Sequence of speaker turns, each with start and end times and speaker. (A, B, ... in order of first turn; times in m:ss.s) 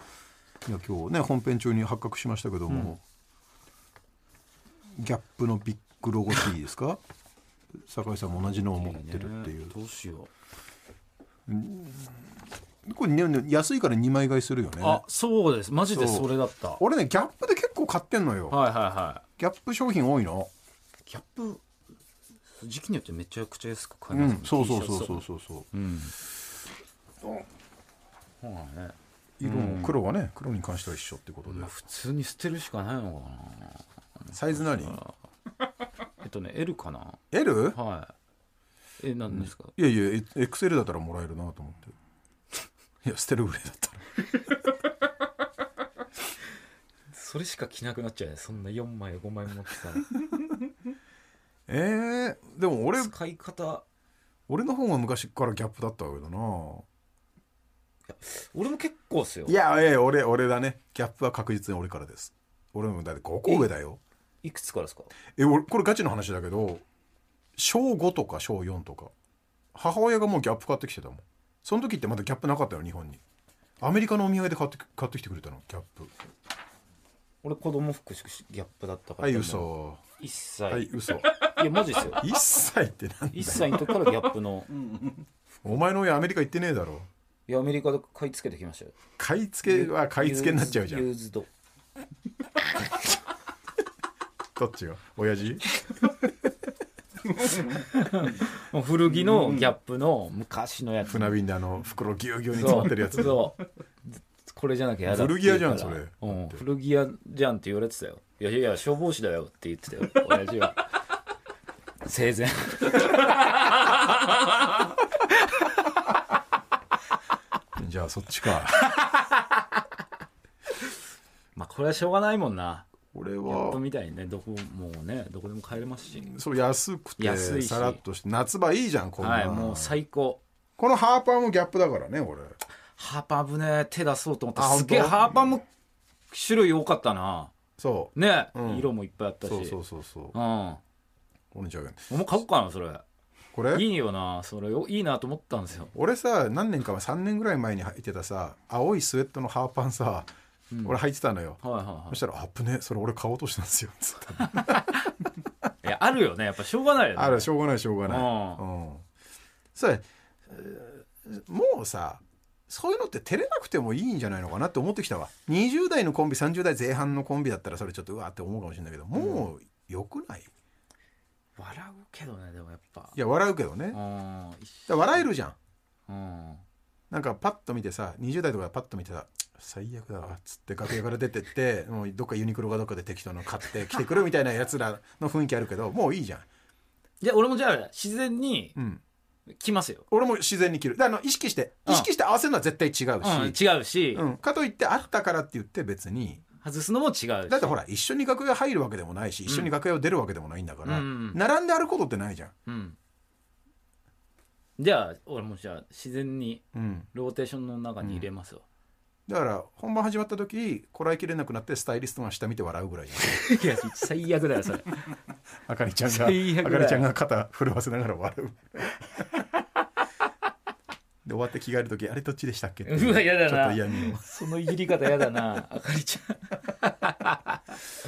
0:00.6-0:03.0 A
0:02.7-0:03.0 B
0:04.9-0:07.0 A
0:07.8-0:09.7 A
0:08.7-0:10.3 B
0:11.5-0:12.3 A
0:12.8-0:15.0 A
0:14.8-0:16.8 B
0:15.9-0:18.6 A
0:18.5-0:19.2 B
0:19.4-0:20.5 A
0:21.0-0:21.6 B
0:22.6-0:26.2 B
0:24.1-0:25.7 A
0:28.4-0:30.0 B
0:29.4-0:31.7 A
0:31.5-0:35.1 B
0:34.3-0:35.0 A
0:36.2-0:37.2 B
0:37.3-0:37.8 A
0:37.7-0:38.1 B
0:39.0-0:39.7 B
0:39.3-0:41.9 A
0:43.0-0:44.0 A
0:47.1-0:50.2 B
0:51.7-0:53.1 A
0:53.0-0:53.8 B
0:54.5-0:56.8 A
0:58.1-0:59.6 B
0:59.4-1:04.0 A
1:04.4-1:05.1 B
1:05.4-1:06.8 A
1:07.6-1:09.1 A
1:09.7-1:13.2 A
1:13.8-1:16.1 A
1:17.4-1:22.2 B
1:19.2-1:20.0 A
1:20.7-1:23.9 A
1:23.3-1:24.7 B
1:25.6-1:27.1 A
1:27.5-1:29.0 B
1:29.2-1:31.1 A
1:29.7-1:31.5 B
1:34.6-1:35.6 A
1:37.6-1:41.4 B
1:41.1-1:43.4 A
1:42.5-1:51.0 B
1:45.1-1:46.6 A
1:52.0-1:54.8 B
1:57.8-1:58.9 A
2:01.5-2:02.9 B
2:03.1-2:03.8 A
2:03.4-2:06.3 B
2:06.2-2:10.0 A
2:07.2-2:08.0 B
2:09.2-2:10.4 B
2:10.8-2:12.6 A
2:13.0-2:15.6 B
2:14.6-2:15.6 A
2:16.3-2:17.5 B
2:17.8-2:18.9 A
2:18.1-2:19.8 B
2:19.4-2:20.4 A
2:20.3-2:20.8 B
2:21.5-2:22.1 A
2:22.1-2:23.0 B
2:23.5-2:23.8 A
2:23.7-2:25.9 B
2:25.9-2:30.3 A
2:30.7-2:31.0 B
2:30.8-2:35.1 A
2:31.6-2:32.2 B
2:35.8-2:37.5 B
2:37.1-2:39.0 A
2:38.0-2:38.6 B
2:39.8-2:50.5 A
2:49.1-2:49.5 B
2:51.6-2:53.1 B
2:53.1-2:54.0 A
2:53.9-2:55.2 B
2:54.9-2:55.6 A
2:56.1-2:56.6 B
2:57.1-3:06.4 A
3:07.2-3:08.8 B
3:08.8-3:09.0 A
3:09.5-3:10.0 B
3:10.1-3:13.6 A
3:13.2-3:14.2 B
3:14.1-3:16.4 A
3:16.6-3:17.8 B
3:17.5-3:22.5 A
3:20.8-3:21.4 B
3:22.6-3:23.0 B
3:24.8-3:28.6 B
3:26.7-3:27.1 A
3:28.0-3:28.3 A
3:29.3-3:33.5 A
3:33.2-3:35.0 B
3:35.7-3:39.2 A
3:36.0-3:37.1 B
3:41.2-3:44.4 A
3:42.8-3:47.6 B